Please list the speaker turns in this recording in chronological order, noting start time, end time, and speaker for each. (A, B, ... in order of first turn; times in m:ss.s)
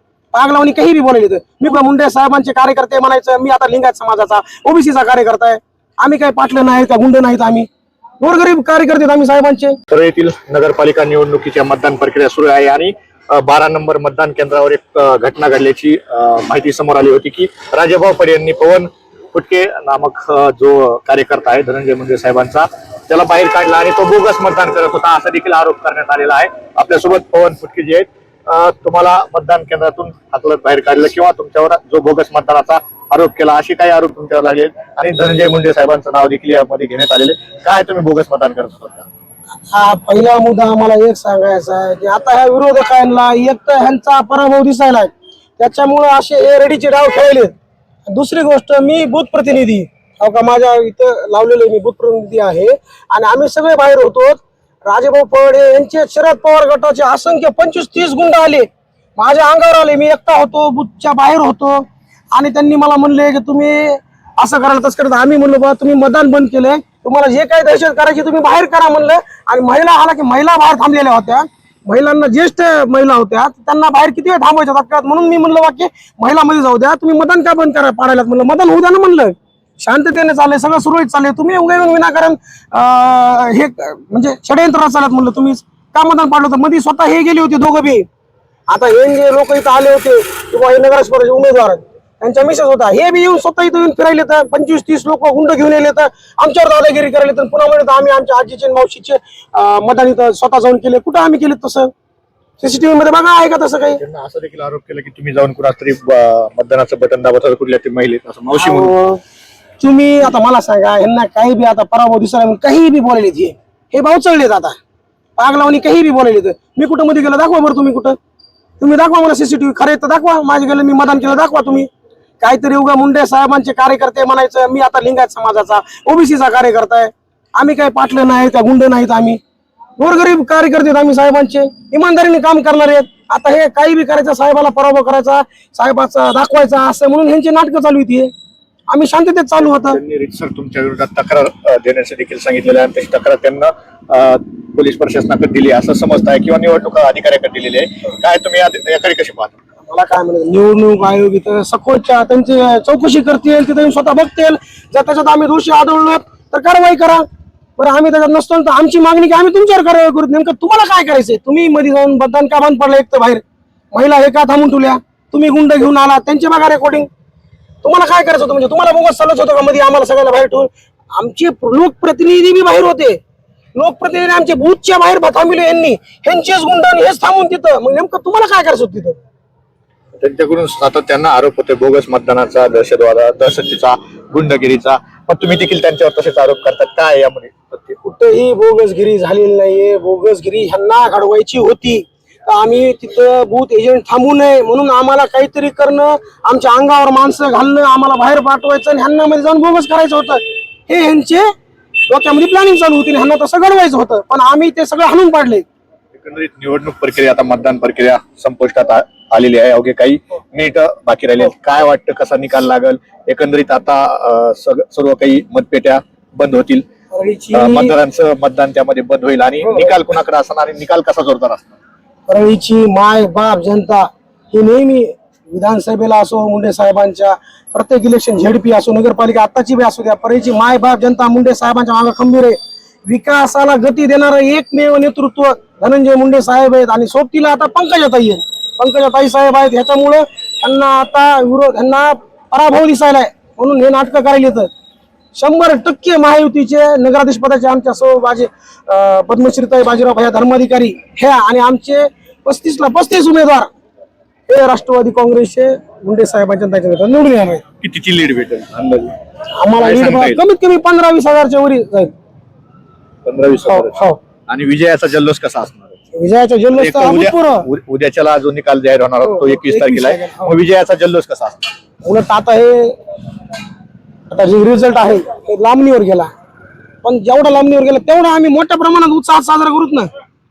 0:00.3-0:07.7 A
0:08.2-0:09.8 A
0:09.9-0:39.1 B
0:39.7-0:47.5 A
0:48.1-1:28.0 A
1:28.7-1:41.9 A
1:42.6-1:44.0 A
1:44.0-1:48.9 B
1:48.6-1:49.2 A
1:49.8-1:54.8 A
1:55.4-1:58.2 A
1:58.8-2:01.9 A
2:02.4-2:09.4 A
2:10.0-2:18.3 A
2:18.9-2:20.0 A
2:19.8-2:29.5 B
2:29.9-2:37.2 A
2:37.8-2:47.1 A
2:47.8-2:53.2 A
2:53.8-2:59.2 A
3:00.2-3:08.1 B
3:08.1-3:21.5 A
3:22.1-3:25.6 A
3:26.1-3:36.8 B
3:37.1-3:37.9 A
3:37.5-3:41.7 B
3:39.6-3:39.9 A
3:42.3-4:04.7 A
4:05.4-4:13.7 A
4:14.5-4:17.6 A
4:17.8-4:19.1 B
4:19.6-4:22.1 A
4:19.8-4:20.4 B
4:23.2-4:25.9 B
4:23.7-4:24.2 A
4:26.1-4:27.6 A
4:26.7-4:31.7 B
4:29.2-4:30.5 A
4:32.0-4:33.0 A
4:34.3-4:36.3 A
4:37.0-4:40.1 A